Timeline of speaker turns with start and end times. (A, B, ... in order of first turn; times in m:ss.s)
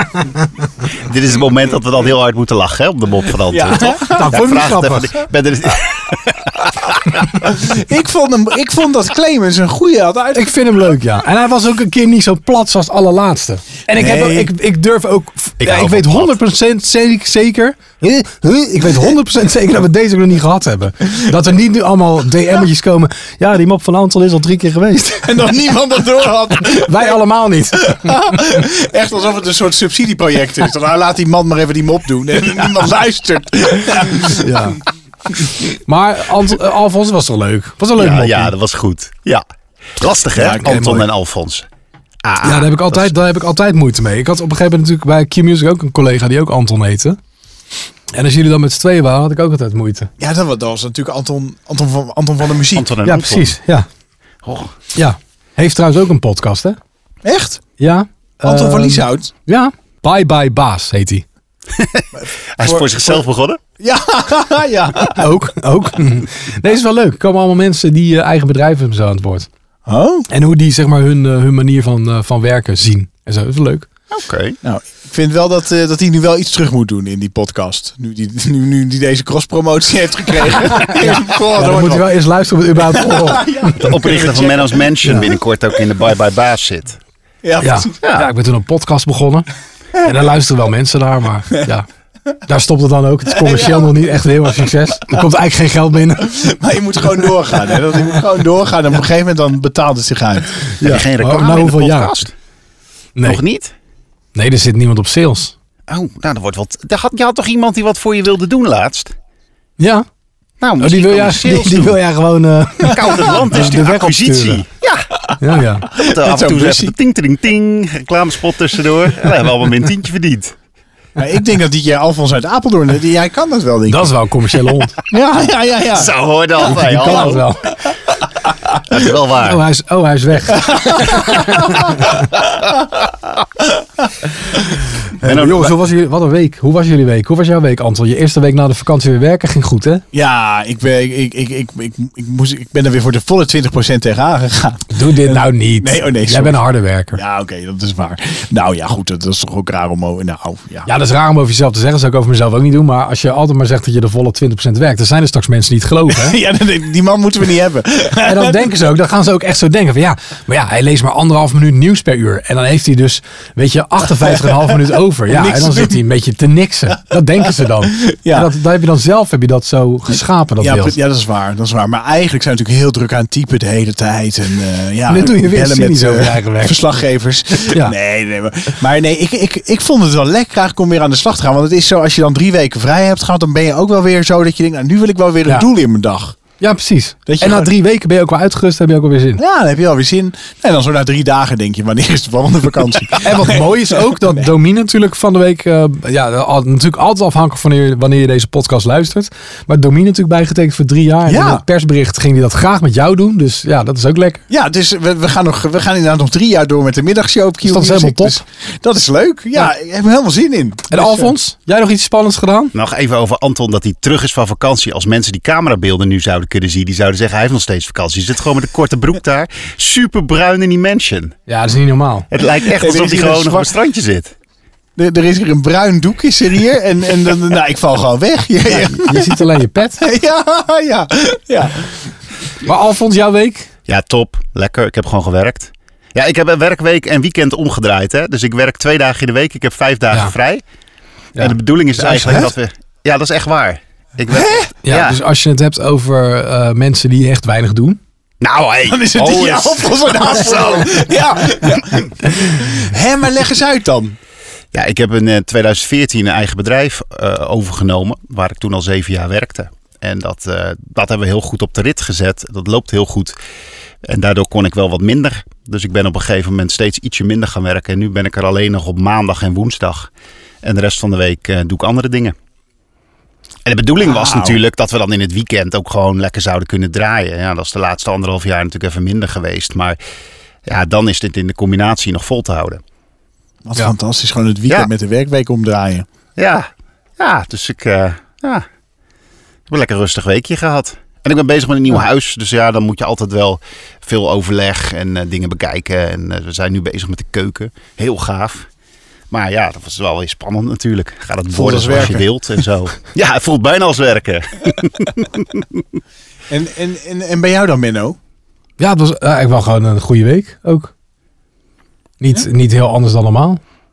0:01.0-0:06.9 A
0:03.5-0:04.6 B
0:04.0-0:05.2 C
0:07.4-0:10.5 B
0:10.3-0:25.4 C
0:14.0-0:14.5 B
0:15.6-0:16.3 A
0:25.2-0:27.2 B
0:26.7-0:28.5 C
0:27.8-0:34.7 B
0:34.4-0:34.8 C
0:35.3-0:35.6 B
0:35.8-0:38.5 C
0:38.0-0:39.4 A
0:40.0-0:41.7 A
0:40.3-0:41.0 B
0:40.6-0:41.0 C
0:42.2-0:43.1 A
0:42.4-0:47.2 C
0:48.1-0:50.1 C
0:50.2-0:52.9 B
0:52.7-0:53.6 A
0:53.0-0:53.9 C
0:54.4-0:54.7 A
0:54.9-0:56.8 C
0:57.2-0:57.6 B
0:57.8-1:01.2 C
0:58.4-0:59.3 B
1:01.7-1:03.6 A
1:02.1-1:03.2 B
1:03.8-1:05.3 B
1:05.1-1:09.5 C
1:09.9-1:10.3 B
1:10.3-1:13.9 C
1:14.1-1:14.6 A
1:14.6-1:22.1 B
1:20.7-1:23.9 C
1:22.7-1:24.9 B
1:23.8-1:27.0 A
1:25.0-1:25.3 C
1:27.4-1:28.0 B
1:27.6-1:31.9 C
1:28.0-1:28.3 A
1:32.4-1:36.4 C
1:33.3-1:34.1 B
1:36.2-1:40.6 B
1:40.8-1:42.1 C
1:40.8-1:42.3 A
1:43.2-1:43.4 C
1:43.2-1:43.7 A
1:44.3-1:45.5 C
1:45.9-1:49.1 A
1:49.8-1:50.0 C
1:50.6-1:52.0 A
1:50.8-1:54.6 C
1:52.8-1:55.0 A
1:55.4-1:55.9 C
1:55.9-1:56.9 B
1:55.9-2:00.5 A
2:01.2-2:04.2 B
2:03.9-2:05.0 C
2:05.0-2:07.4 B
2:05.9-2:07.4 A
2:06.6-2:07.8 C
2:08.9-2:09.6 A
2:09.4-2:12.2 C
2:10.6-2:11.7 B
2:15.2-2:15.7 A
2:15.2-2:20.0 C
2:20.1-2:26.6 B
2:24.9-2:27.2 C
2:27.1-2:30.9 B
2:30.8-2:36.4 C
2:36.1-2:38.7 B
2:38.2-2:51.0 C
2:44.3-2:44.6 B
2:45.2-2:46.0 B
2:47.8-2:48.5 B
2:50.6-3:06.4 B
2:55.1-2:56.8 C
2:57.6-2:57.9 C
3:06.6-3:09.4 C
3:07.3-3:07.7 B
3:09.4-3:14.4 B
3:13.2-3:24.4 C
3:21.3-3:21.6 B
3:24.5-3:31.3 B
3:27.6-3:28.4 C
3:30.9-3:32.7 C
3:32.7-3:41.3 A
3:41.5-3:42.3 C
3:42.3-3:44.3 A
3:42.4-3:43.7 B
3:45.0-3:49.4 B
3:48.7-3:50.0 C
3:50.0-3:52.1 B
3:52.6-3:53.7 C
3:53.9-4:00.6 A
4:01.3-4:02.5 C
4:01.4-4:05.2 A
4:04.3-4:04.7 B
4:04.8-4:08.0 C
4:08.4-4:11.0 A
4:08.8-4:14.2 B
4:14.7-4:23.4 A
4:24.0-4:30.1 A
4:30.6-4:32.3 A
4:33.6-4:40.0 A
4:34.0-4:34.6 B
4:40.6-4:42.8 A
4:43.6-4:46.1 B
4:46.4-4:48.6 A
4:49.7-4:58.7 A
4:59.3-5:05.6 A
5:01.5-5:02.3 B
5:06.5-5:08.2 B
5:08.8-5:10.9 C
5:12.2-5:13.6 C